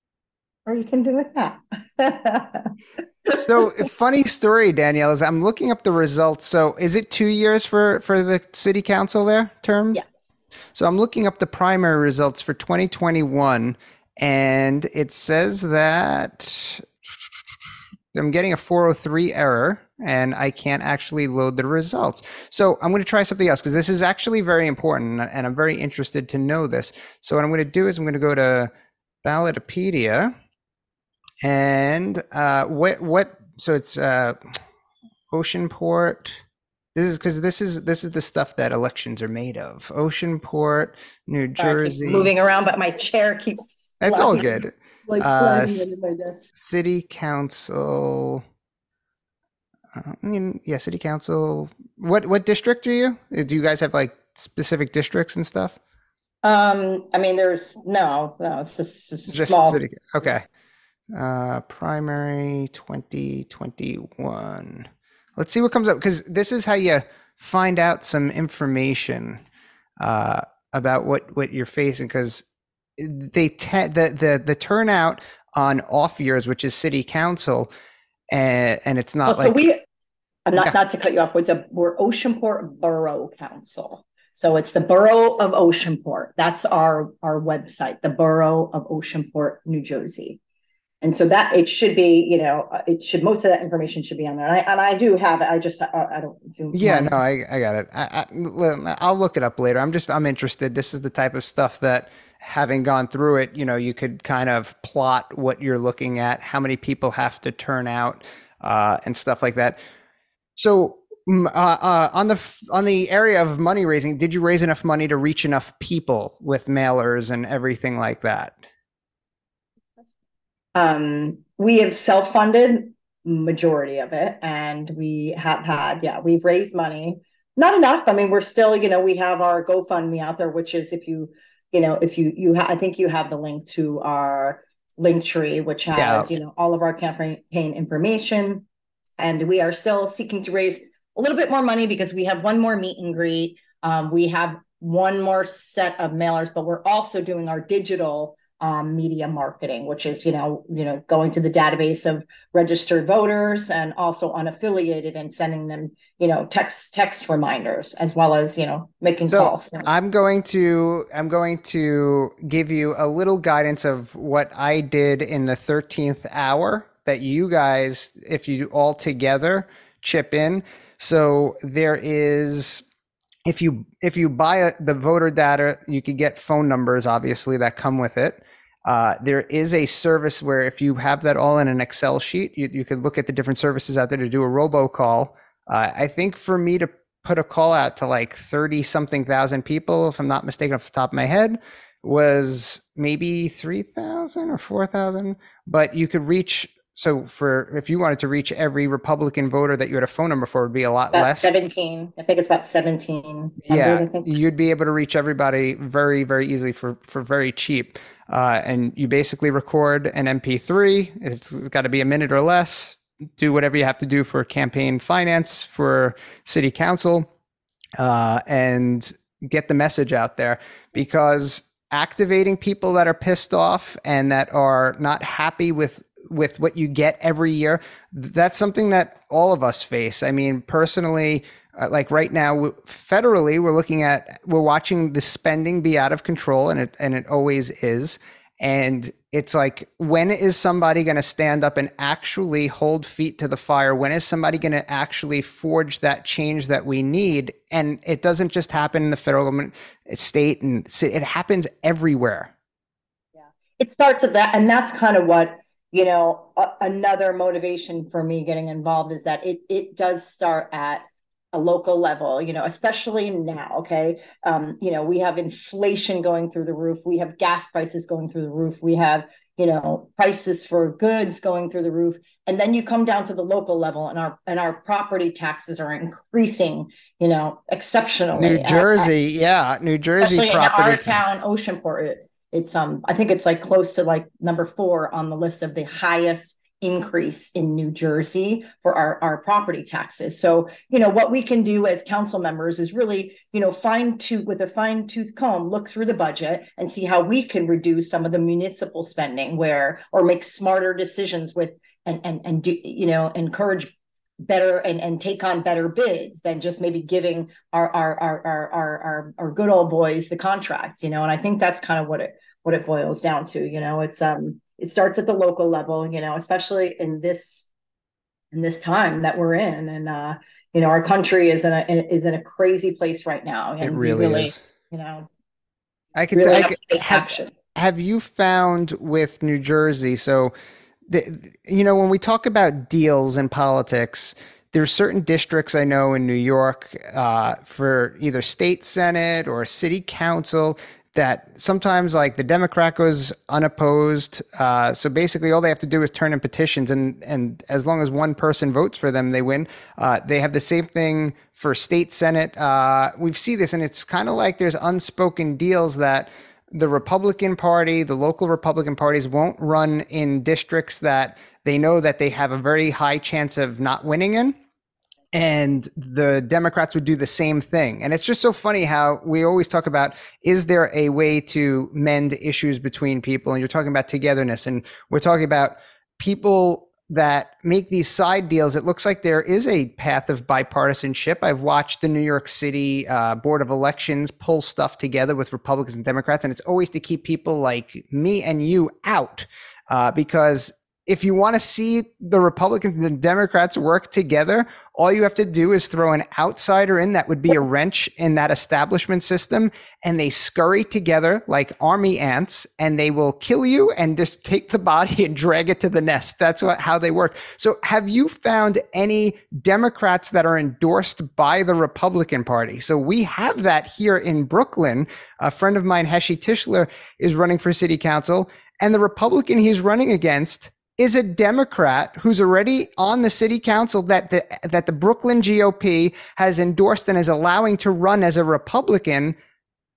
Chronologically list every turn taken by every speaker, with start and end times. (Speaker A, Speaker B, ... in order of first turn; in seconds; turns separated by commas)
Speaker A: 0.7-2.7, Speaker B: 3.3-10.0, Speaker B: 10.7-16.8, Speaker B: 18.1-28.7, Speaker B: 29.2-30.3, Speaker B: 31.4-34.4, Speaker B: 35.3-36.4, Speaker B: 36.9-42.3, Speaker A: 41.6-46.4, Speaker B: 44.0-46.0, Speaker B: 46.5-48.4, Speaker B: 49.9-55.8, Speaker A: 56.4-59.8, Speaker B: 59.3-60.4, Speaker B: 61.1-69.4, Speaker B: 70.0-72.4, Speaker B: 73.0-77.7, Speaker B: 78.3-79.6, Speaker A: 79.2-79.8, Speaker A: 80.5-90.4, Speaker A: 91.0-97.2, Speaker B: 96.7-109.8, Speaker B: 110.5-118.6, Speaker A: 120.7-138.6, Speaker B: 135.9-136.3, Speaker A: 139.2-159.9, Speaker B: 159.3-172.8, Speaker B: 173.4-201.5, Speaker A: 201.1-204.4, Speaker B: 203.7-217.3, Speaker B: 218.0-252.5, Speaker A: 253.4-279.1, Speaker B: 278.3-281.2, Speaker A: 280.2-303.9, Speaker A: 304.4-317.7, Speaker A: 318.5-325.3, Speaker B: 323.8-324.6, Speaker B: 326.1-330.5, Speaker A: 326.3-327.5, Speaker B: 331.1-364.6, Speaker B: 365.3-429.4